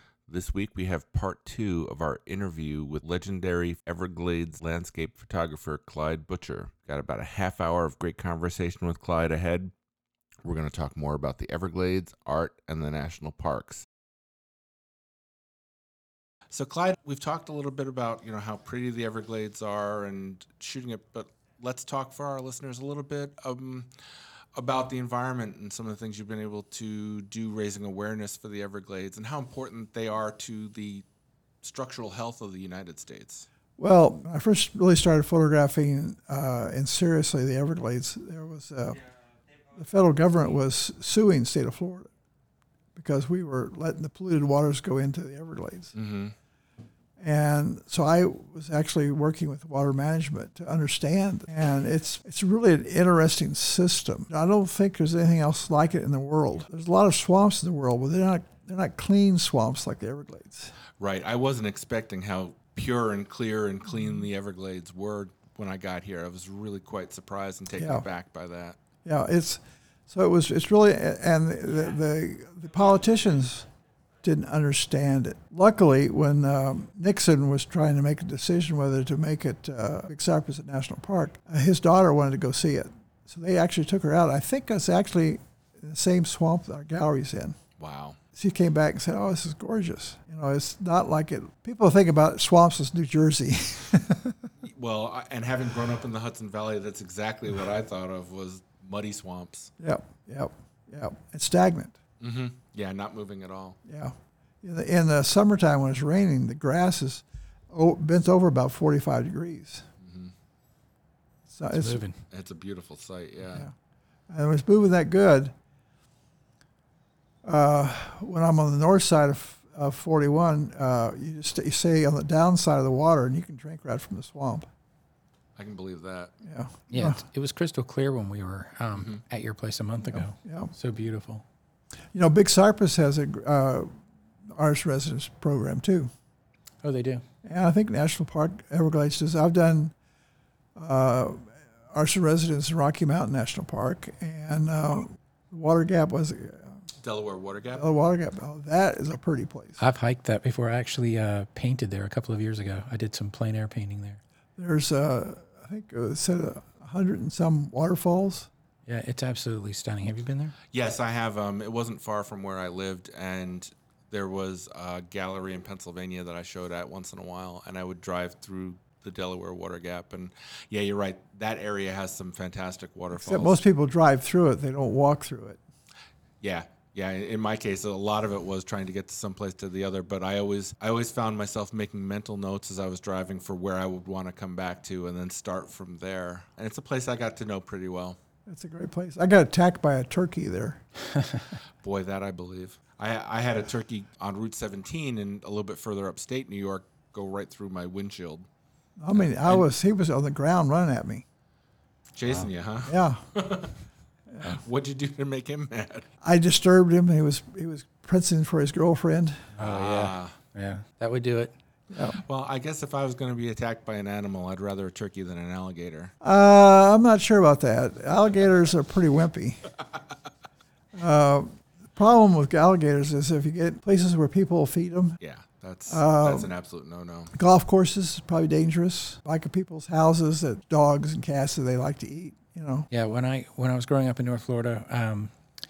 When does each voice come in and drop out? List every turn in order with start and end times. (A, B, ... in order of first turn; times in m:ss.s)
0:00.3-0:09.7 A
0:10.4-0:13.9 A
0:16.5-0:23.9 A
0:24.6-0:31.0 A
0:31.6-0:33.5 A
0:33.8-0:39.0 B
0:39.7-0:42.1 B
0:43.0-0:45.9 B
0:45.9-0:46.4 A
0:47.2-1:00.8 B
1:01.0-1:08.8 A
1:07.8-1:08.0 B
1:09.0-1:13.7 B
1:14.2-1:27.6 B
1:27.8-1:28.2 A
1:28.3-1:34.5 B
1:34.6-1:39.7 A
1:39.8-1:42.0 B
1:42.2-1:43.8 A
1:43.9-1:49.9 B
1:50.0-1:50.3 A
1:51.5-1:52.1 B
1:51.7-1:52.2 C
1:52.3-1:53.7 A
1:54.3-1:55.5 B
1:57.4-2:04.7 B
2:05.6-2:06.3 A
2:06.4-2:07.2 B
2:06.9-2:11.4 C
2:09.0-2:09.2 A
2:10.1-2:10.7 B
2:12.1-2:13.9 B
2:14.5-2:16.1 B
2:16.8-2:17.2 C
2:17.4-2:19.9 B
2:20.8-2:26.8 B
2:27.0-2:27.8 A
2:27.7-2:29.8 B
2:29.8-2:34.2 C
2:34.6-2:38.5 B
2:38.9-2:40.6 C
2:40.7-2:53.6 A
2:53.1-2:55.6 B
2:56.4-3:08.2 A
3:08.5-3:10.8 B
3:11.1-3:11.5 C
3:11.8-3:18.5 A
3:19.0-3:21.2 B
3:19.2-3:19.6 A
3:22.2-3:23.8 A
3:22.9-3:23.2 B
3:24.3-3:24.6 B
3:24.4-3:26.1 A
3:26.2-3:29.5 B
3:29.6-3:31.5 C
3:29.6-3:30.4 A
3:31.9-3:32.2 B
3:32.2-3:36.1 A
3:36.2-3:39.7 B
3:41.0-3:45.2 B
3:45.2-3:47.3 A
3:45.9-3:46.5 B
3:47.3-3:52.9 B
3:52.9-3:55.3 C